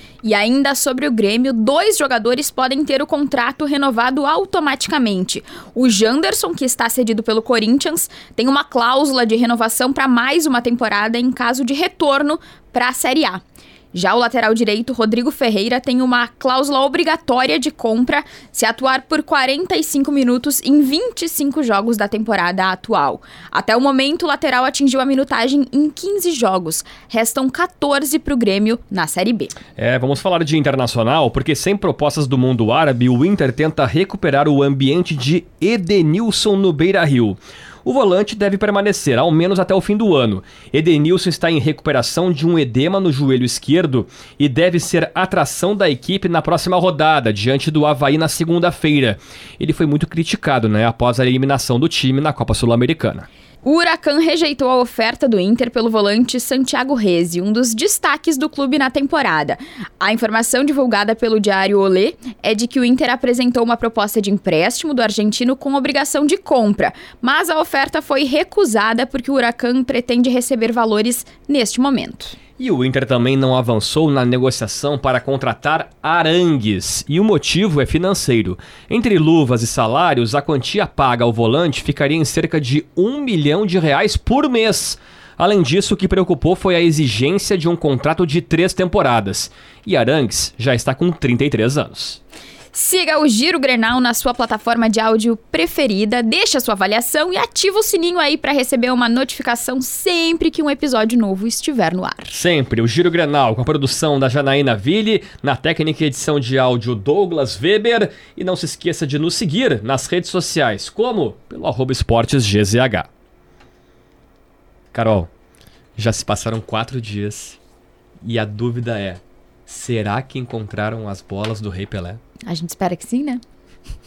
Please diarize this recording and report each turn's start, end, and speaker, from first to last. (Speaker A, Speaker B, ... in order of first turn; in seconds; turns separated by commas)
Speaker A: 0.2-13.4, Speaker A: 13.9-29.6, Speaker B: 29.8-53.3, Speaker A: 53.6-72.4, Speaker B: 72.6-92.2, Speaker A: 92.7-102.4, Speaker B: 102.3-113.1, Speaker B: 114.9-115.3, Speaker B: 116.0-117.6, Speaker B: 118.2-122.2, Speaker A: 122.5-123.4